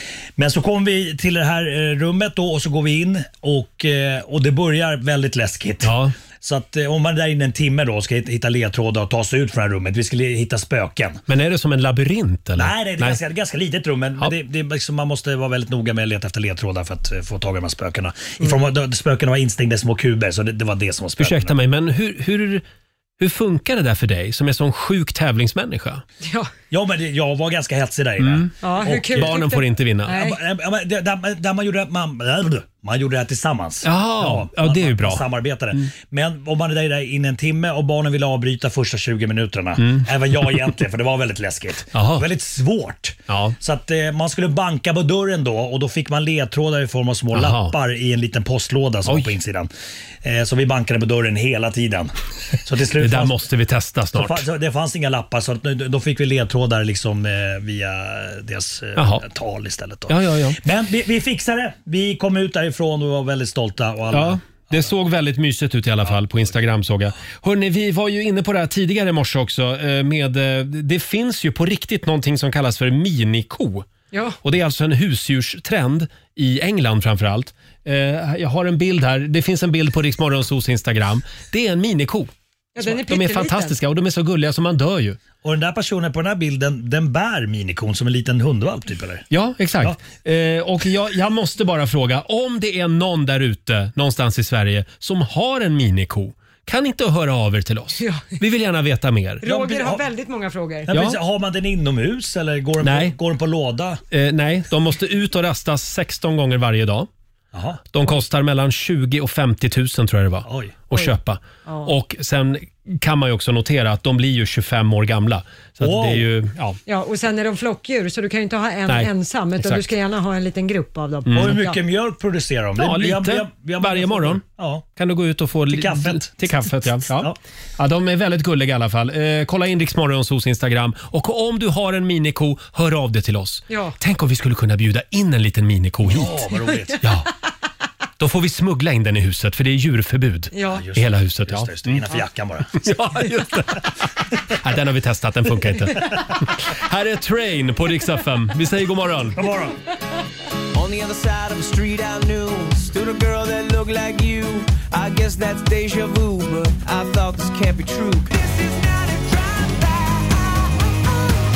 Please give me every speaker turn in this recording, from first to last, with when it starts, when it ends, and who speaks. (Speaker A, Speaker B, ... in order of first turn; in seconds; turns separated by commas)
Speaker A: 0.4-11.2, Speaker B: 5.8-6.1, Speaker B: 11.3-13.2, Speaker A: 12.6-21.5, Speaker B: 21.2-22.6, Speaker B: 23.2-26.0, Speaker C: 26.2-26.5, Speaker A: 26.7-29.4, Speaker B: 28.2-30.1, Speaker C: 28.6-30.4, Speaker A: 30.1-49.7, Speaker B: 33.8-35.9, Speaker B: 39.8-40.1, Speaker B: 41.9-42.2, Speaker B: 43.3-43.5, Speaker B: 47.3-47.7, Speaker B: 49.0-49.3, Speaker A: 50.2-52.1, Speaker A: 52.6-53.4, Speaker B: 53.0-54.5, Speaker A: 54.1-64.8, Speaker B: 59.0-59.2, Speaker B: 60.1-60.6, Speaker B: 64.1-73.9, Speaker C: 74.1-74.4, Speaker B: 74.4-85.2, Speaker C: 82.8-83.8, Speaker A: 85.4-89.2, Speaker B: 89.3-99.4, Speaker C: 98.0-98.3, Speaker C: 99.4-100.9, Speaker A: 99.4-100.0, Speaker A: 100.9-104.0, Speaker B: 100.9-101.2, Speaker B: 102.8-103.1, Speaker B: 104.1-107.1, Speaker A: 107.5-107.8, Speaker B: 107.9-116.8, Speaker A: 110.5-110.8, Speaker C: 111.7-111.9, Speaker A: 115.8-116.2, Speaker C: 116.9-121.8, Speaker B: 118.9-119.9, Speaker B: 121.3-121.6, Speaker A: 121.3-124.8, Speaker B: 122.8-124.4, Speaker B: 125.0-136.4, Speaker A: 125.7-127.3, Speaker C: 133.7-133.9, Speaker A: 136.0-137.0, Speaker B: 137.0-137.3, Speaker B: 138.2-142.0, Speaker C: 140.5-140.8, Speaker A: 140.7-142.8, Speaker B: 142.8-144.0, Speaker B: 144.6-149.4, Speaker A: 149.3-149.7, Speaker D: 150.7-160.3